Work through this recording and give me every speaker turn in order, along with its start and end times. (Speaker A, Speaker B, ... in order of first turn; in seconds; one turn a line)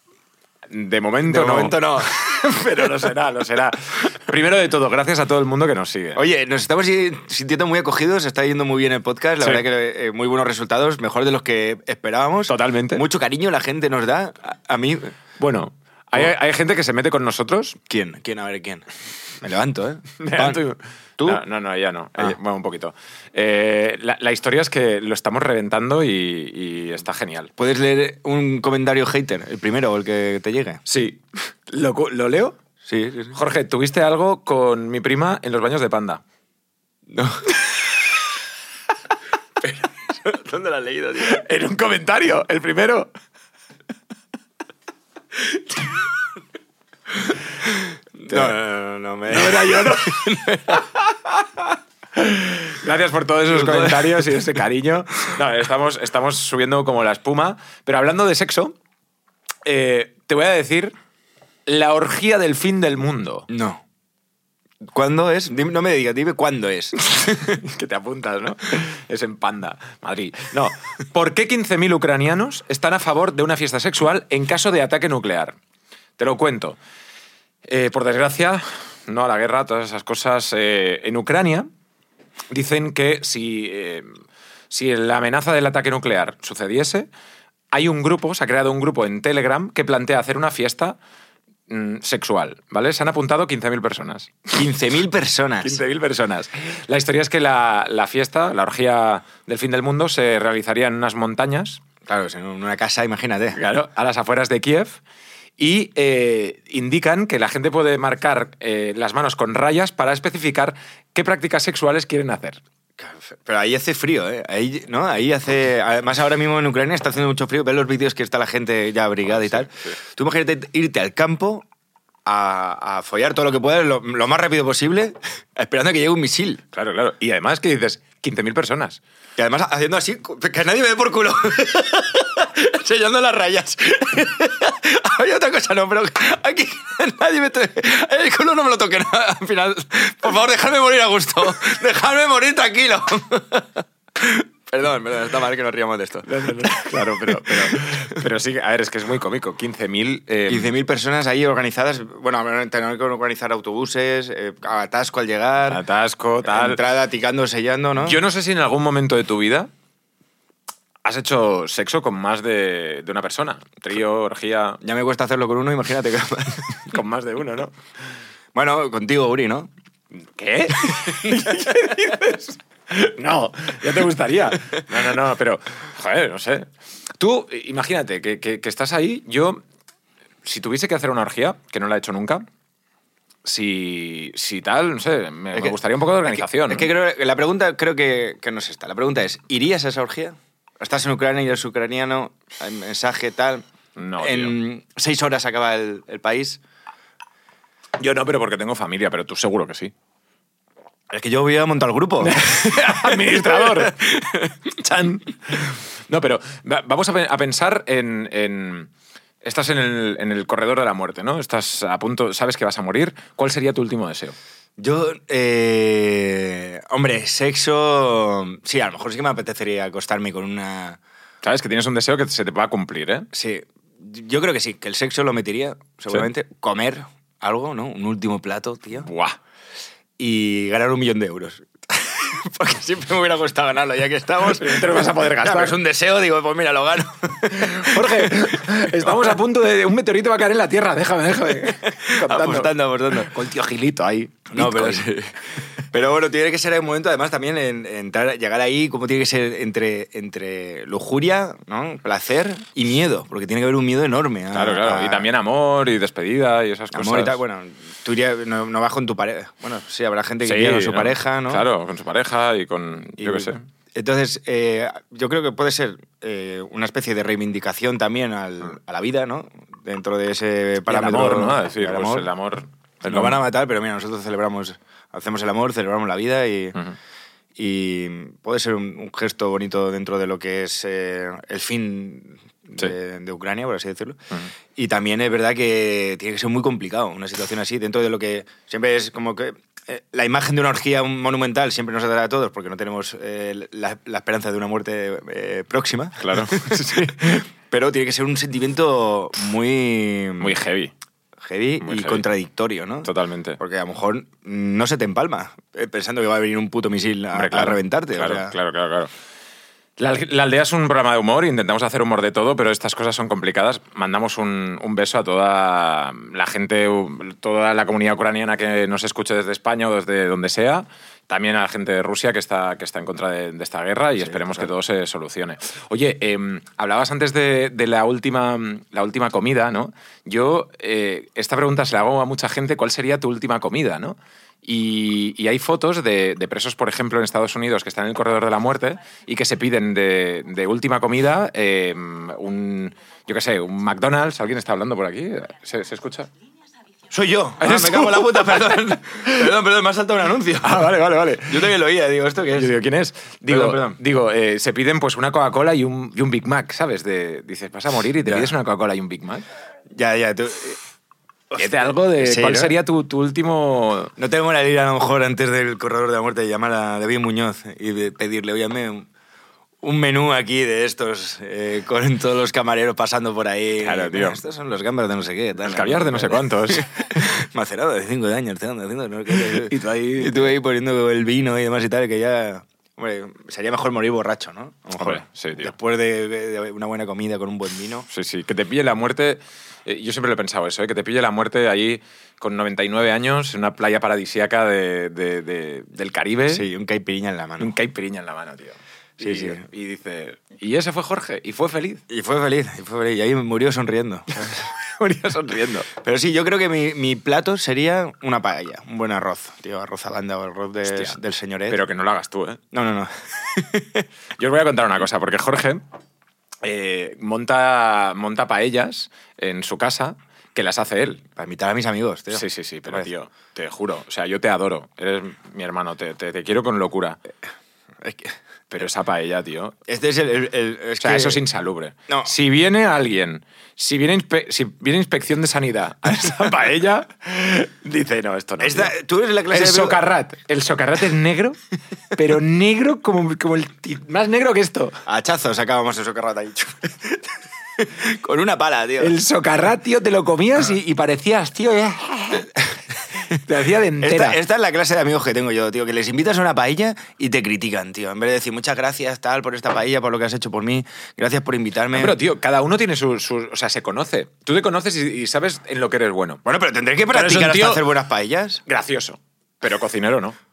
Speaker A: 0.7-6.2
Speaker B: 1.3-2.2
Speaker B: 6.2-15.2
Speaker A: 12.5-13.0
Speaker A: 15.4-17.8
Speaker B: 17.9-18.8
Speaker B: 19.4-20.6
Speaker A: 20.2-27.5
Speaker B: 27.6-30.8
Speaker A: 30.9-32.6
Speaker B: 32.9-33.4
Speaker A: 33.3-36.2
Speaker B: 37.1-37.5
Speaker B: 39.6-41.4
Speaker A: 41.2-43.1
Speaker B: 47.6-50.9
Speaker A: 49.3-51.4
Speaker A: 52.1-58.8
Speaker B: 53.5-54.5
Speaker A: 59.6-60.9
Speaker A: 61.7-63.5
Speaker B: 63.5-63.8
Speaker B: 64.9-67.6
Speaker A: 67.4-75.6
Speaker A: 76.2-76.8
Speaker A: 77.7-81.7
Speaker A: 82.5-84.1
Speaker A: 84.7-87.1
Speaker A: 87.7-91.0
Speaker A: 91.7-94.7
Speaker B: 94.5-95.8
Speaker A: 95.6-101.8
Speaker B: 102.1-103.6
Speaker A: 103.5-105.0
Speaker A: 105.6-112.6
Speaker B: 113.0-121.7
Speaker A: 119.3-119.9
Speaker B: 122.3-126.6
Speaker A: 126.7-129.0
Speaker B: 129.4-148.2
Speaker A: 146.3-150.7
Speaker B: 150.5-155.8
Speaker A: 155.7-156.8
Speaker B: 156.4-158.2
Speaker A: 158.0-159.7
Speaker A: 161.0-164.8
Speaker B: 164.8-166.8
Speaker A: 166.9-167.7
Speaker B: 168.5-169.7
Speaker A: 170.2-179.6
Speaker B: 170.8-171.7
Speaker A: 180.4-182.4
Speaker A: 183.4-186.9
Speaker B: 186.3-193.7
Speaker A: 194.0-194.6
Speaker B: 194.2-196.6
Speaker A: 198.0-199.9
Speaker B: 201.1-204.6
Speaker A: 202.2-204.0
Speaker A: 204.7-208.9
Speaker A: 209.4-214.4
Speaker B: 214.8-221.0
Speaker A: 221.4-223.3
Speaker B: 223.3-229.1
Speaker A: 229.0-229.4
Speaker B: 230.2-239.3
Speaker A: 234.4-235.8
Speaker A: 237.5-245.0
Speaker B: 241.7-243.3
Speaker B: 244.5-245.3
Speaker B: 245.9-255.3
Speaker A: 254.5-257.4
Speaker B: 256.9-261.7
Speaker A: 260.4-263.6
Speaker B: 263.2-272.3
Speaker A: 270.9-273.4
Speaker B: 273.0-276.8
Speaker B: 277.6-284.2
Speaker B: 284.8-300.6
Speaker A: 296.2-297.4
Speaker A: 300.4-300.9
Speaker B: 301.4-308.6
Speaker A: 301.8-302.2
Speaker A: 303.0-303.6
Speaker A: 307.3-309.1
Speaker A: 310.0-346.3
Speaker B: 324.2-324.7
Speaker B: 347.1-350.9
Speaker A: 347.6-349.0
Speaker A: 350.6-351.7
Speaker B: 351.5-352.7
Speaker A: 352.5-359.5
Speaker B: 353.5-354.0
Speaker B: 358.2-358.5
Speaker B: 359.9-360.8
Speaker B: 361.5-362.7
Speaker A: 361.6-364.1
Speaker B: 364.2-369.1
Speaker B: 369.8-388.1
Speaker A: 373.8-374.4
Speaker A: 375.7-377.2
Speaker A: 379.3-380.5
Speaker A: 385.0-385.7
Speaker A: 388.1-396.6
Speaker B: 396.5-397.8
Speaker A: 397.6-402.0
Speaker B: 399.2-399.6
Speaker B: 402.1-404.7
Speaker A: 404.4-405.9
Speaker B: 405.9-411.8
Speaker A: 410.9-411.2
Speaker A: 411.7-412.6
Speaker B: 412.7-414.1
Speaker A: 414.4-415.8
Speaker A: 416.6-421.2
Speaker B: 421.4-423.1
Speaker A: 422.3-427.2
Speaker B: 428.0-428.4
Speaker A: 428.7-429.8
Speaker B: 429.9-431.4
Speaker A: 431.0-438.9
Speaker B: 438.6-440.0
Speaker A: 439.5-441.6
Speaker A: 442.1-445.0
Speaker B: 445.1-449.1
Speaker A: 449.0-452.6
Speaker A: 453.3-454.4
Speaker B: 454.0-462.2
Speaker A: 461.9-466.4
Speaker B: 466.4-468.6
Speaker A: 467.1-467.9
Speaker A: 468.7-470.4